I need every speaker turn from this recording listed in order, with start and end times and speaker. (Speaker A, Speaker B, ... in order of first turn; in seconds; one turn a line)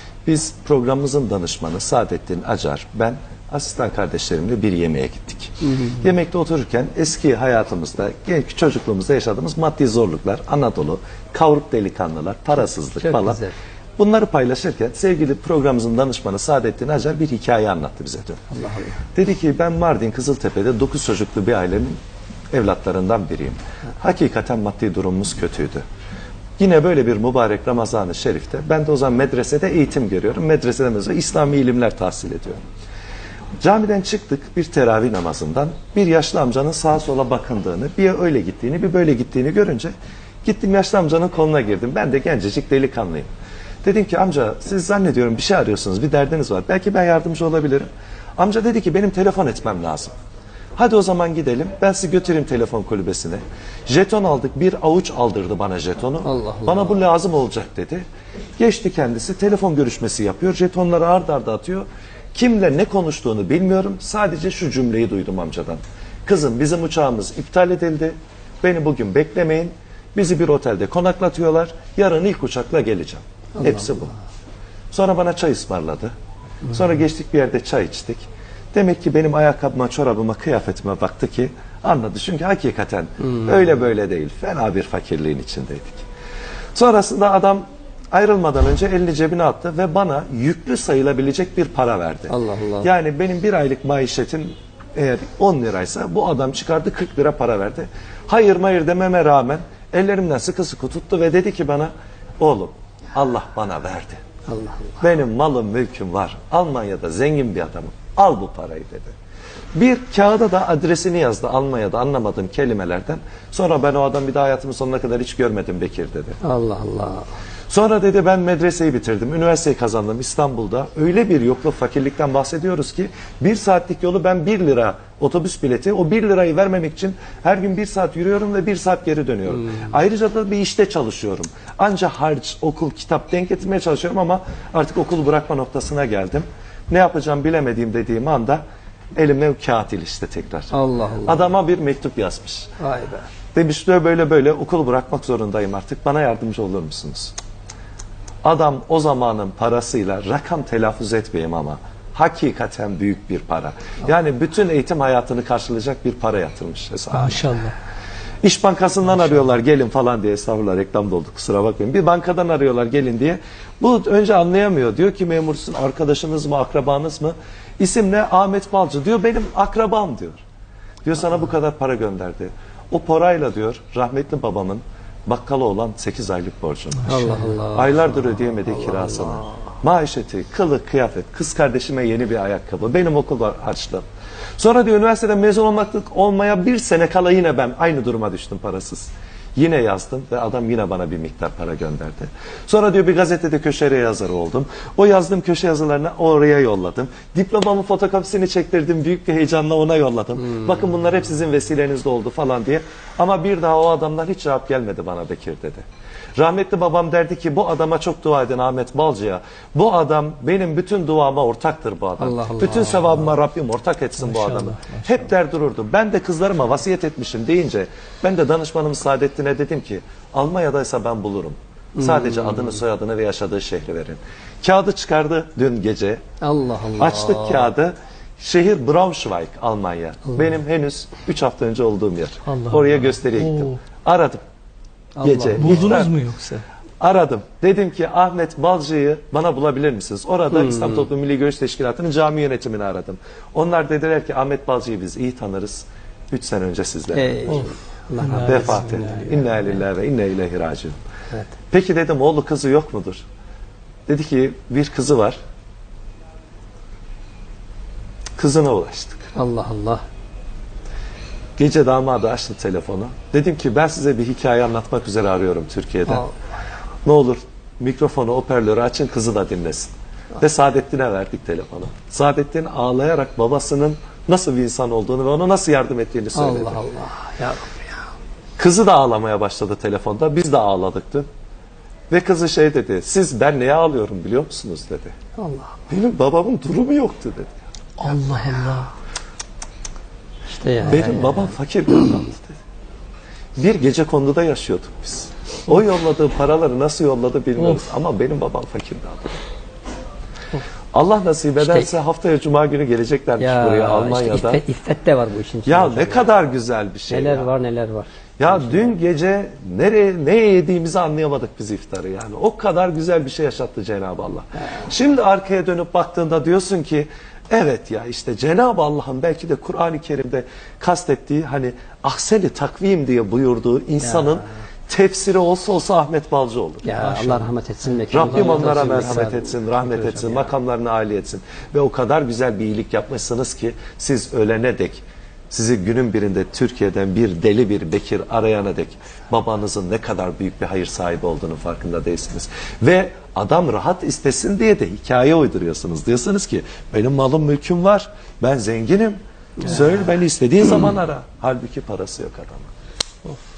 Speaker A: 0.2-13.4
Speaker B: 13.0-13.5
Speaker A: 14.0-18.4
Speaker B: 18.5-19.0
Speaker A: 19.1-22.0
Speaker A: 22.5-25.8
Speaker A: 26.6-32.6
Speaker A: 33.6-39.9
Speaker A: 40.4-43.3
Speaker A: 43.8-50.1
Speaker A: 50.8-58.0
Speaker B: 56.2-57.0
Speaker A: 58.6-74.1
Speaker A: 74.9-76.1
Speaker A: 76.6-86.0
Speaker A: 86.7-104.2
Speaker B: 92.3-92.9
Speaker B: 104.5-105.0
Speaker A: 105.0-109.1
Speaker A: 109.7-116.4
Speaker B: 116.4-117.3
Speaker A: 117.7-138.6
Speaker A: 139.2-140.7
Speaker B: 140.7-141.5
Speaker A: 141.2-142.7
Speaker B: 142.8-143.2
Speaker A: 143.5-147.3
Speaker A: 148.4-157.6
Speaker C: 157.1-157.7
Speaker A: 158.4-170.4
Speaker A: 171.0-184.0
Speaker C: 177.1-177.6
Speaker B: 177.1-179.3
Speaker A: 184.6-205.8
Speaker A: 206.4-226.2
Speaker B: 212.2-213.3
Speaker C: 214.2-215.3
Speaker B: 222.0-222.8
Speaker B: 226.4-227.7
Speaker A: 227.0-234.4
Speaker C: 232.5-233.8
Speaker B: 235.2-236.0
Speaker A: 235.2-236.2
Speaker C: 235.6-236.6
Speaker A: 237.0-247.7
Speaker B: 240.5-241.1
Speaker B: 247.1-249.7
Speaker C: 247.5-249.2
Speaker A: 248.4-251.0
Speaker A: 251.7-253.2
Speaker A: 254.1-255.4
Speaker A: 258.4-259.3
Speaker B: 259.4-260.0
Speaker A: 261.6-266.3
Speaker A: 267.1-276.8
Speaker B: 276.4-278.1
Speaker A: 278.6-281.3
Speaker A: 282.1-285.1
Speaker B: 285.4-285.8
Speaker A: 285.9-287.6
Speaker C: 288.0-288.9
Speaker B: 290.5-291.5
Speaker A: 290.9-292.6
Speaker A: 293.6-299.4
Speaker C: 297.6-297.8
Speaker A: 300.9-304.6
Speaker B: 301.6-301.9
Speaker B: 303.4-306.3
Speaker A: 305.7-307.5
Speaker B: 307.1-308.9
Speaker A: 308.4-326.9
Speaker B: 324.1-324.4
Speaker B: 326.8-330.5
Speaker C: 326.9-327.4
Speaker A: 328.1-352.7
Speaker C: 328.3-328.8